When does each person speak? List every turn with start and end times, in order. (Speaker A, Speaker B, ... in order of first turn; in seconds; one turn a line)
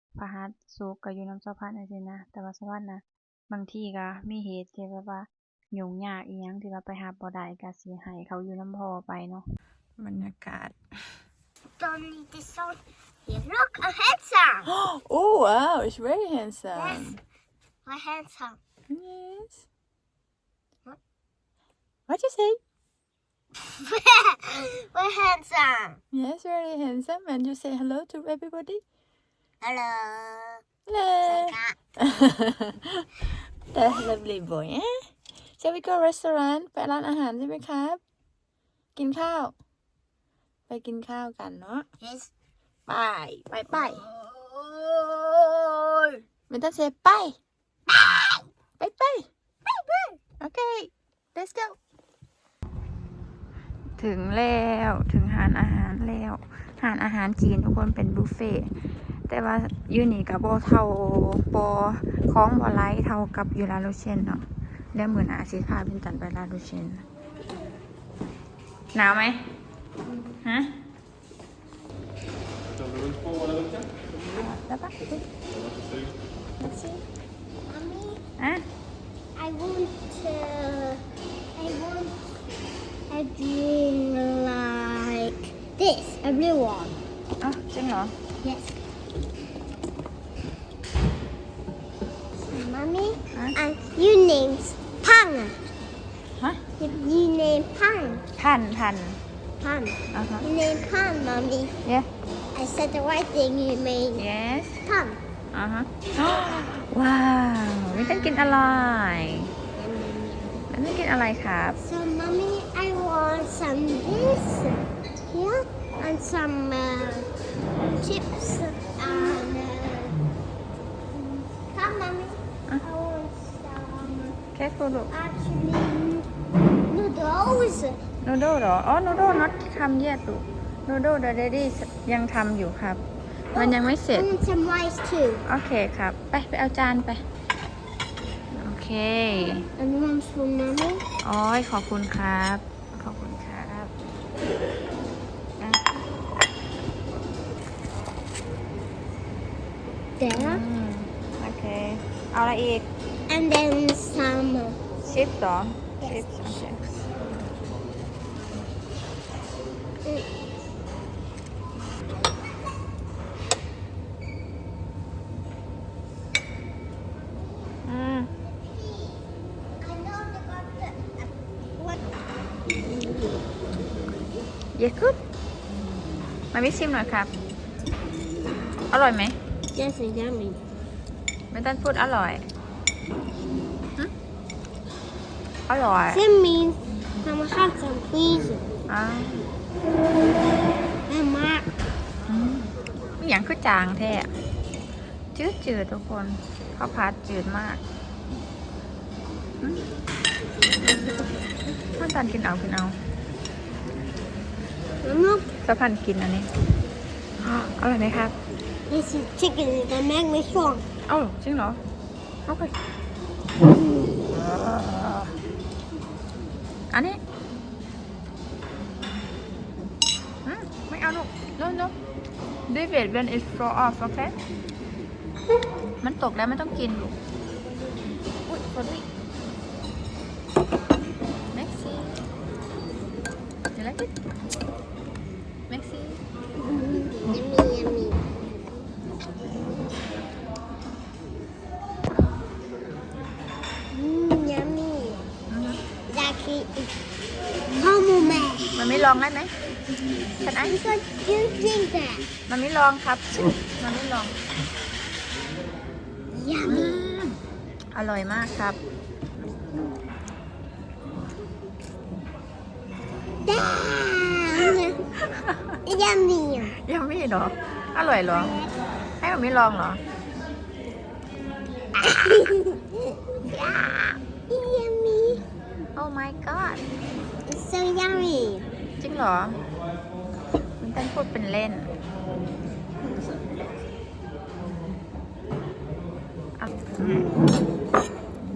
Speaker A: 0.1-9.4
Speaker B: 10.0-10.8
Speaker C: 11.8-14.7
Speaker B: 14.7-17.2
Speaker C: 16.7-17.2
Speaker C: 17.9-18.6
Speaker B: 18.9-19.6
Speaker B: 22.1-22.6
Speaker C: 23.8-26.0
Speaker B: 26.1-28.8
Speaker C: 29.6-30.6
Speaker B: 30.9-38.0
Speaker C: 31.2-31.8
Speaker B: 39.0-39.5
Speaker B: 40.7-41.9
Speaker C: 42.0-42.3
Speaker B: 42.9-44.0
Speaker C: 43.7-46.2
Speaker B: 46.5-47.4
Speaker C: 47.9-48.5
Speaker B: 48.8-49.3
Speaker C: 49.7-50.2
Speaker B: 50.4-51.8
Speaker B: 54.0-58.7
Speaker B: 59.3-67.0
Speaker B: 68.9-69.5
Speaker B: 70.4-70.7
Speaker B: 74.2-75.2
Speaker C: 76.6-77.0
Speaker C: 77.7-78.2
Speaker B: 78.4-78.7
Speaker C: 79.4-81.0
Speaker C: 81.5-82.2
Speaker C: 83.1-87.0
Speaker B: 87.4-88.2
Speaker C: 88.4-88.7
Speaker C: 92.5-95.6
Speaker C: 96.8-98.2
Speaker B: 98.4-99.2
Speaker C: 99.6-101.8
Speaker B: 100.1-100.5
Speaker B: 101.8-102.1
Speaker C: 102.5-104.3
Speaker B: 104.2-104.8
Speaker C: 104.8-105.2
Speaker B: 105.5-109.5
Speaker C: 107.9-108.7
Speaker C: 109.8-110.7
Speaker B: 110.7-111.8
Speaker C: 111.8-117.3
Speaker C: 117.8-120.2
Speaker C: 121.1-124.4
Speaker B: 124.5-125.1
Speaker C: 125.1-126.3
Speaker C: 126.9-128.0
Speaker B: 128.2-134.3
Speaker C: 133.5-135.4
Speaker B: 135.4-137.2
Speaker B: 138.5-139.7
Speaker C: 139.8-141.1
Speaker B: 141.2-143.9
Speaker C: 150.2-150.6
Speaker B: 150.3-152.9
Speaker C: 153.3-155.0
Speaker B: 155.1-157.0
Speaker C: 156.0-156.7
Speaker B: 167.8-168.3
Speaker C: 168.4-169.2
Speaker C: 169.8-172.0
Speaker C: 172.8-173.4
Speaker B: 174.8-175.2
Speaker B: 176.5-177.3
Speaker B: 178.9-179.4
Speaker C: 179.8-180.6
Speaker B: 181.5-182.5
Speaker B: 185.7-186.2
Speaker C: 186.1-188.7
Speaker B: 188.9-189.4
Speaker C: 191.1-191.7
Speaker B: 192.3-194.3
Speaker B: 195.3-197.8
Speaker C: 200.9-201.2
Speaker B: 201.9-203.0
Speaker C: 205.0-205.5
Speaker B: 205.6-206.5
Speaker B: 207.4-208.4
Speaker C: 208.9-210.8
Speaker B: 211.1-211.8
Speaker B: 212.5-212.7
Speaker B: 214.3-215.3
Speaker B: 216.9-217.2
Speaker B: 220.4-221.9
Speaker B: 222.7-224.4
Speaker B: 226.0-227.2
Speaker B: 228.5-229.1
Speaker B: 231.5-232.2
Speaker B: 233.8-234.1
Speaker B: 235.7-236.2
Speaker C: 236.6-238.2
Speaker C: 243.9-245.3
Speaker B: 245.5-245.8
Speaker C: 246.1-246.9
Speaker C: 247.7-248.8
Speaker B: 248.7-249.5
Speaker C: 250.4-252.3
Speaker B: 250.4-250.8
Speaker B: 252.5-254.4
Speaker C: 256.3-257.2
Speaker B: 256.6-257.4
Speaker B: 257.9-258.8
Speaker C: 263.4-265.0
Speaker B: 265.2-265.8
Speaker C: 265.9-266.8
Speaker B: 266.8-268.6
Speaker C: 268.4-268.7
Speaker B: 269.2-270.0
Speaker C: 271.9-275.4
Speaker B: 275.9-276.9
Speaker C: 277.5-278.7
Speaker B: 279.0-279.6
Speaker B: 280.8-281.9
Speaker B: 286.6-287.3